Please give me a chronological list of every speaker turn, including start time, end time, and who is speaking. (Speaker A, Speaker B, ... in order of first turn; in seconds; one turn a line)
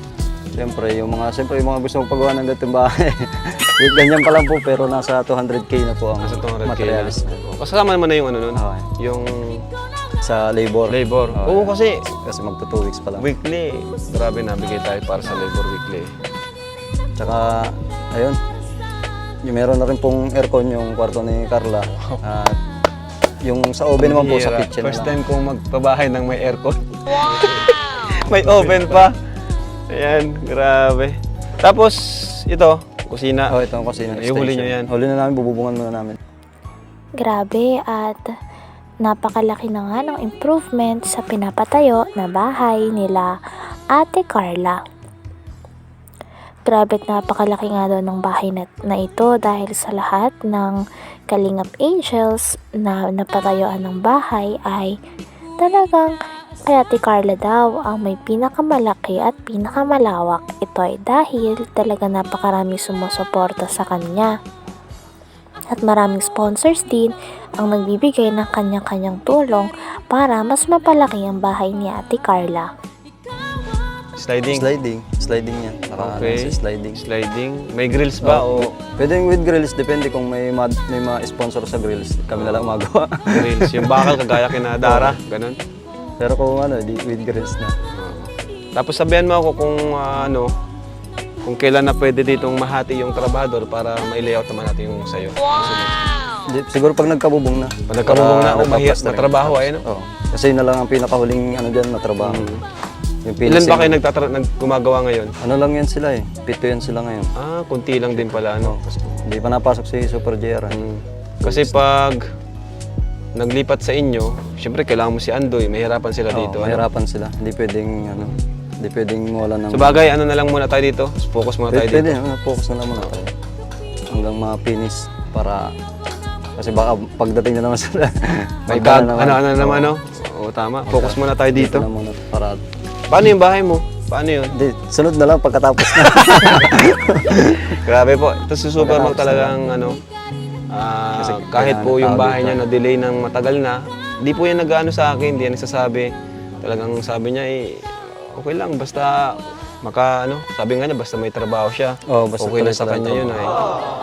Speaker A: 0.5-7.5
Speaker B: 6.2-9.6
Speaker A: 8.5-8.9
Speaker A: 10.2-13.3
Speaker B: 10.9-12.0
Speaker B: 13.2-16.1
Speaker A: 17.2-18.4
Speaker A: 19.4-22.6
Speaker A: 23.4-25.1
Speaker B: 24.0-29.1
Speaker A: 28.6-29.0
Speaker B: 29.9-33.5
Speaker A: 33.5-36.2
Speaker B: 34.1-34.9
Speaker C: 37.2-38.2
Speaker C: 39.0-43.3
Speaker C: 43.9-44.8
Speaker C: 46.7-50.8
Speaker C: 51.3-54.9
Speaker C: 55.6-56.1
Speaker C: 56.7-64.3
Speaker C: 65.7-72.7
Speaker B: 74.2-74.7
Speaker A: 74.5-77.0
Speaker B: 76.0-78.7
Speaker A: 78.2-84.2
Speaker B: 82.3-82.8
Speaker B: 83.3-85.6
Speaker A: 84.8-85.2
Speaker A: 86.2-87.7
Speaker B: 87.9-90.5
Speaker B: 91.4-96.1
Speaker A: 96.5-102.5
Speaker B: 97.9-99.8
Speaker B: 102.2-102.6
Speaker A: 103.2-104.0
Speaker B: 103.5-105.3
Speaker A: 105.4-107.3
Speaker B: 107.4-108.7
Speaker A: 108.2-110.8
Speaker B: 110.7-112.2
Speaker A: 111.4-111.7
Speaker B: 113.3-116.8
Speaker A: 116.3-120.0
Speaker B: 119.7-122.2
Speaker A: 121.7-123.3
Speaker A: 124.1-125.7
Speaker A: 126.6-129.9
Speaker B: 128.7-131.9
Speaker A: 130.9-132.6
Speaker B: 133.1-134.5
Speaker A: 134.5-137.4
Speaker B: 136.1-136.8
Speaker B: 137.7-140.0
Speaker A: 138.8-139.6
Speaker B: 140.7-146.1
Speaker A: 141.2-142.6
Speaker B: 146.6-153.5
Speaker A: 152.1-153.4